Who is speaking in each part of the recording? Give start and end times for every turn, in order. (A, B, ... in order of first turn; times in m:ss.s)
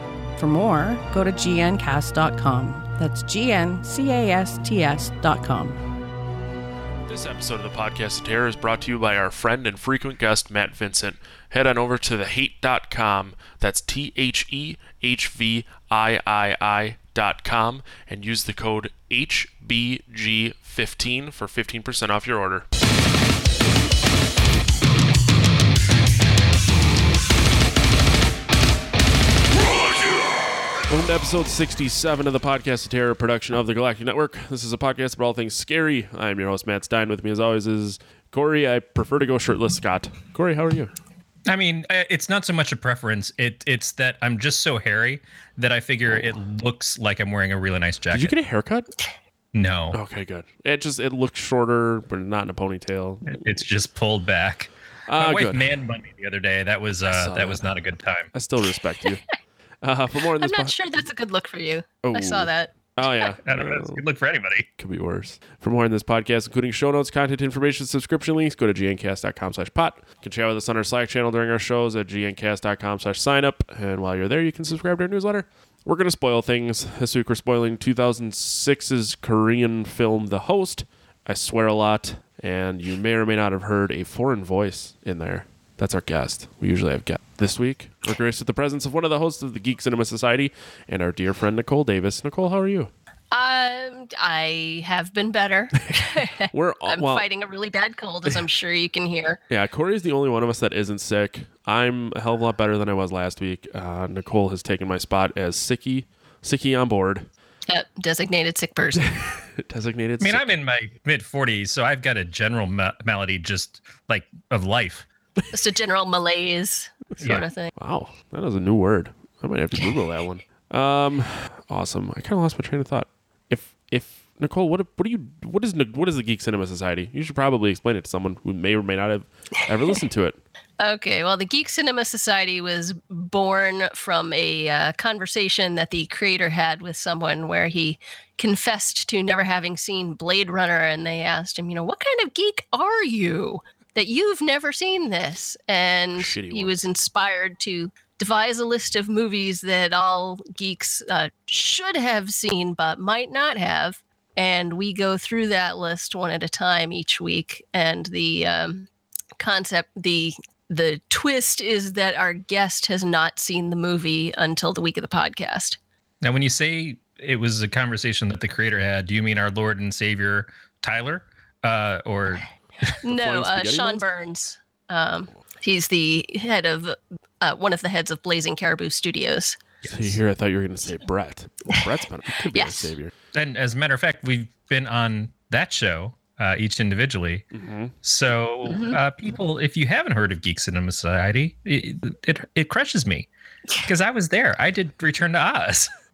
0:00.4-0:05.8 A
0:07.0-0:22.7 B
0:30.9-0:40.9 B
0:41.5-0:48.4 C
0:46.1-0:46.3 B
0:48.1-0:48.9 B
0:49.5-0:50.0 C
0:49.9-0:53.4 B
0:53.2-0:58.3 C
0:55.1-0:55.7 B
0:57.1-0:57.6 B
0:58.3-0:59.2 B
0:59.8-1:00.7 B
1:00.4-1:02.7 D
1:02.0-1:04.0 B
1:03.4-1:04.7 C
1:04.8-1:32.9 B
1:33.3-1:39.4 D
1:36.5-1:37.3 B
1:39.5-1:47.3 B
1:47.7-1:49.1 D
1:49.0-1:50.5 B
1:50.2-1:55.1 C
1:55.5-1:57.7 D
1:57.2-1:57.4 C
1:57.7-2:10.4 B
2:10.8-2:45.8 D
2:26.2-2:26.8 B
2:46.2-2:52.5 C
2:53.0-2:59.6 D
2:53.0-2:54.0 B
2:59.8-3:00.2 C
2:59.9-3:03.1 B
3:02.5-3:02.9 D
3:03.3-3:07.4 C
3:07.5-3:07.9 B
3:08.0-3:13.3 C
3:08.7-3:09.0 D
3:13.8-3:15.9 C